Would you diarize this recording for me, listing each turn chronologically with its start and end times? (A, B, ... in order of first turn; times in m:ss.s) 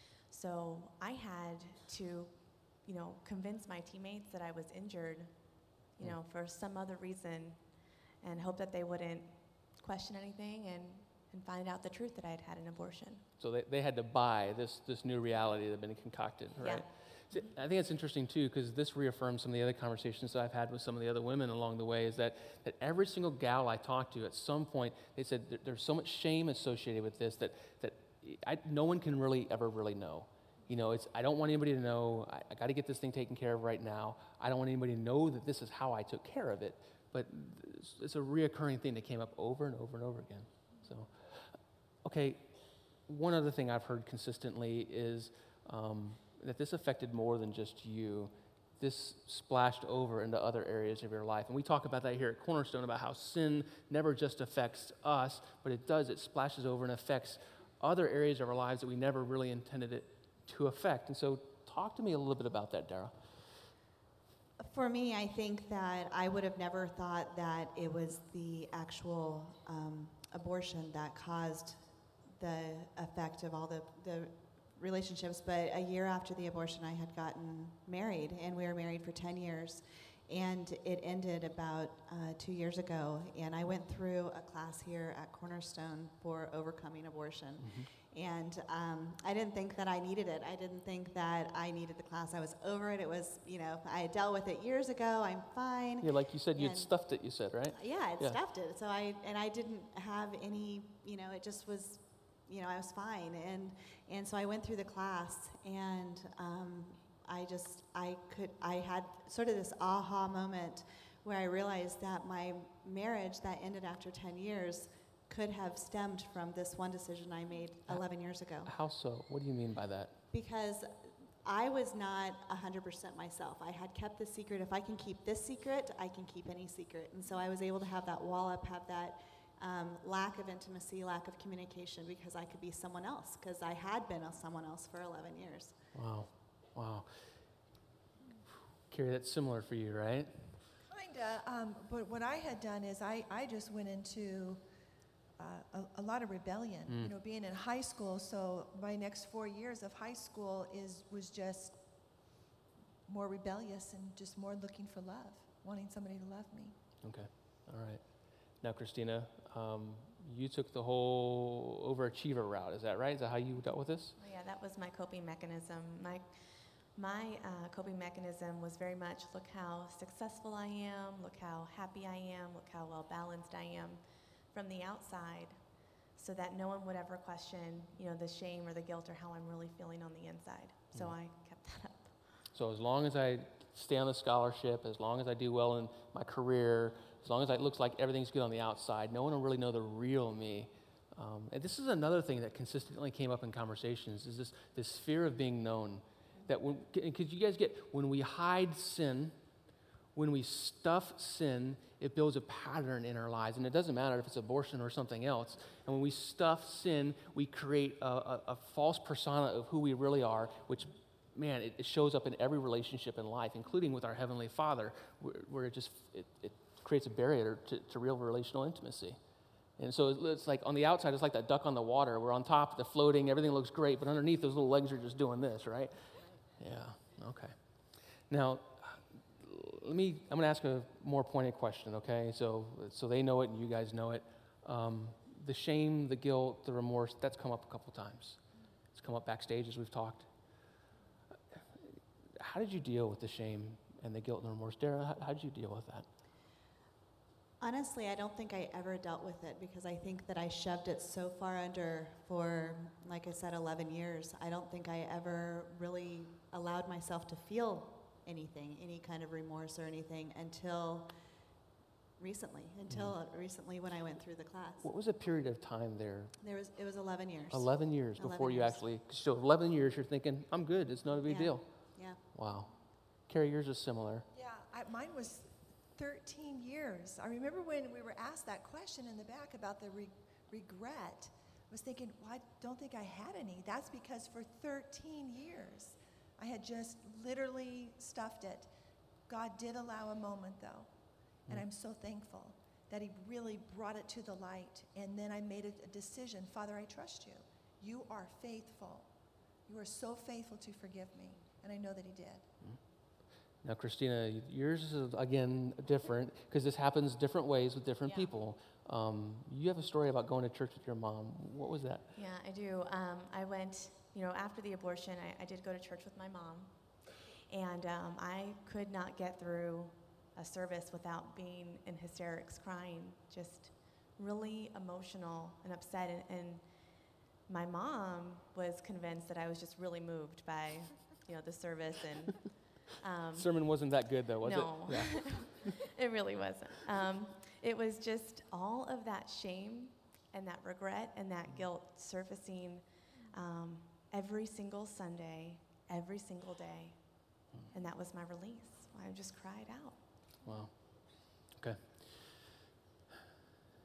0:00.3-0:13.2 A
0:13.4-0:42.5 B
0:16.6-0:16.9 A
0:43.1-1:03.2 B
1:04.6-1:36.9 C
1:27.6-1:27.9 B
1:36.0-1:38.4 B
1:37.7-1:58.7 C
1:58.6-2:00.2 B
2:00.3-2:15.8 C
2:15.9-2:17.1 B
2:18.9-2:20.6 B
2:20.9-2:24.6 D
2:25.4-2:31.8 D
2:26.9-2:27.1 B
2:33.1-2:36.8 D
2:37.0-2:38.0 B
2:38.6-2:44.2 B
2:44.2-3:02.2 A
3:02.5-3:19.4 B
3:20.2-3:39.2 B
3:39.8-3:47.6 B
3:48.3-3:58.4 B
3:58.9-4:00.3 B
4:02.4-4:06.1 B
4:07.6-4:21.1 C
4:22.2-4:24.9 C
4:22.9-4:23.2 B
4:24.8-4:26.4 B
4:26.4-4:28.8 C
4:27.5-4:31.7 B
4:31.2-4:32.2 C
4:32.3-4:32.7 B
4:33.3-4:34.3 B
4:34.3-4:48.7 D
4:49.3-4:50.9 D
4:51.5-4:59.1 D
4:59.7-5:02.5 D
5:03.6-5:12.1 B
5:12.2-5:50.3 A
5:33.4-5:35.7 B
5:50.4-5:52.4 B